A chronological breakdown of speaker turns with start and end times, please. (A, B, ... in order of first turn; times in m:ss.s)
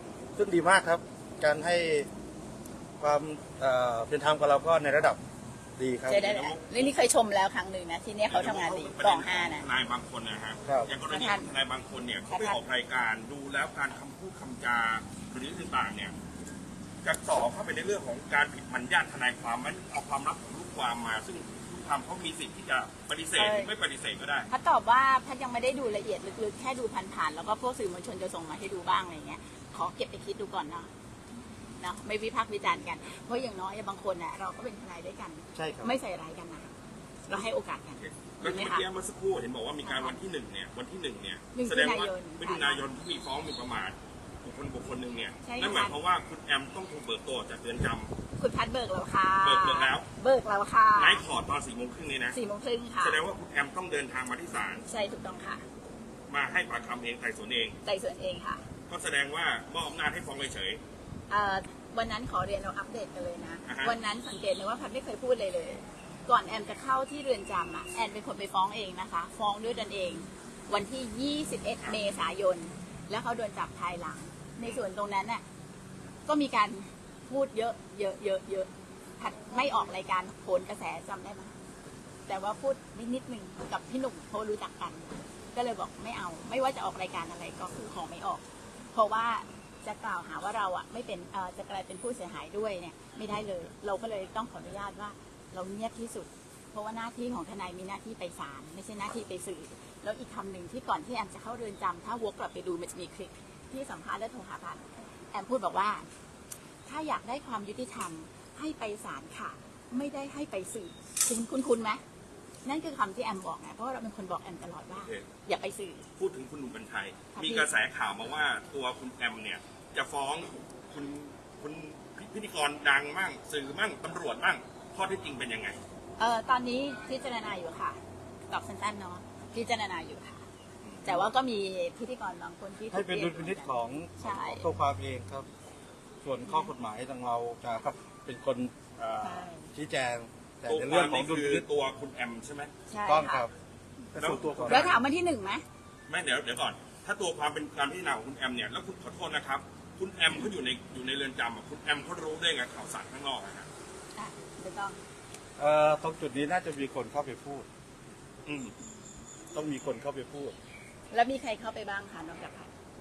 0:00.4-0:02.1 A
0:03.0-0:05.2 A
0:05.8-0:06.3 A
0:06.1-0:09.7 B
0:06.2-0:07.0 C
0:08.3-0:16.2 C
0:10.7-0:10.9 A
0:11.1-0:11.5 B
0:12.3-0:12.6 B
0:17.0-0:24.5 C
0:23.4-0:23.7 B
0:24.5-0:30.9 B
0:31.8-0:36.7 B
0:35.6-0:36.0 A
0:37.3-0:38.8 B
0:38.0-0:48.1 C
0:39.8-0:40.2 B
0:41.6-0:42.8 B
0:45.4-0:46.0 B
0:48.4-0:51.2 B
0:49.4-0:50.1 C
0:51.0-0:52.4 C
0:52.3-0:53.2 B
0:53.0-0:54.9 C
0:54.9-0:55.6 B
0:56.3-0:57.8 C
0:57.8-0:58.6 B
0:58.9-1:00.8 C
1:01.3-1:15.4 B
1:03.7-1:04.0 C
1:16.3-1:21.5 B
1:22.3-1:46.0 B
1:46.9-1:52.0 B
1:52.6-1:56.1 B
1:54.9-1:55.3 C
1:56.2-2:05.8 C
1:57.4-1:57.7 B
2:06.2-2:08.0 B
2:08.5-2:10.4 B
2:10.8-2:11.3 C
2:11.0-2:14.7 B
2:12.9-2:15.5 A
2:16.2-2:21.6 A
2:16.5-2:16.7 B
2:19.2-2:19.7 B
2:20.7-2:22.7 C
2:22.9-2:23.5 B
2:23.0-2:23.5 A
2:24.1-2:25.0 A
2:24.2-2:24.9 C
2:24.7-2:25.6 B
2:26.1-2:33.7 C
2:34.2-2:35.0 B
2:35.6-2:37.7 A
2:38.5-2:38.7 C
2:39.5-2:40.6 A
2:41.1-2:42.7 B